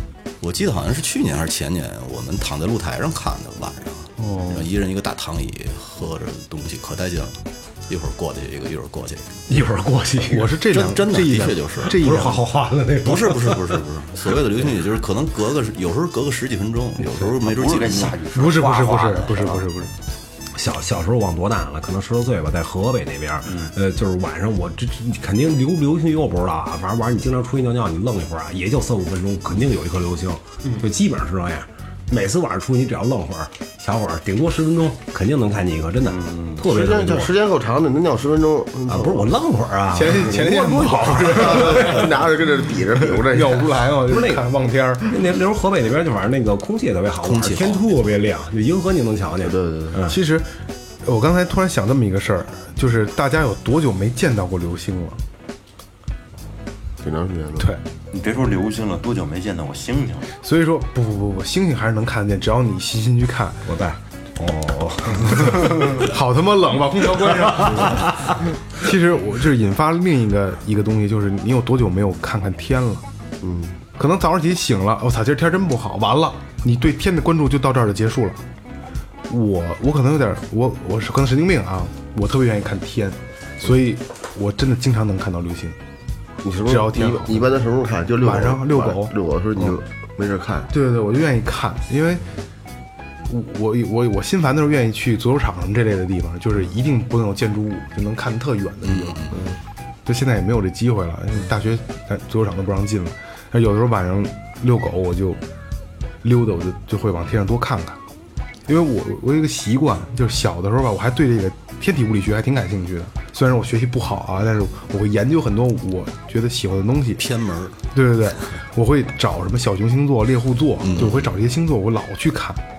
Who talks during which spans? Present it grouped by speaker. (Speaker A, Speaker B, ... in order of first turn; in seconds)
Speaker A: 0.4-9.4, 10.7-12.2, 13.0-18.2, 47.2-48.0, 98.8-99.3, 117.2-117.8, 120.8-121.3
Speaker B: 4.2-4.7, 10.3-12.4, 18.3-19.9, 39.9-42.0, 43.3-45.1, 50.1-55.2, 60.4-63.6, 65.2-68.1, 68.7-73.0, 74.0-78.4, 79.3-85.8, 86.7-87.5, 88.2-89.8, 90.7-92.2, 93.3-99.4, 100.0-105.4, 106.2-108.0, 108.7-117.2, 117.9-122.6
Speaker C: 9.5-10.6, 12.0-13.8, 20.5-37.3, 38.9-42.1, 44.0-44.5, 45.1-50.1, 63.6-66.1, 67.2-68.4
Speaker D: 17.4-19.6, 23.4-23.7, 36.1-36.6, 58.1-60.3
Speaker E: 36.6-39.3, 41.4-43.7, 49.4-50.0, 57.0-57.7, 73.4-73.8, 86.4-90.7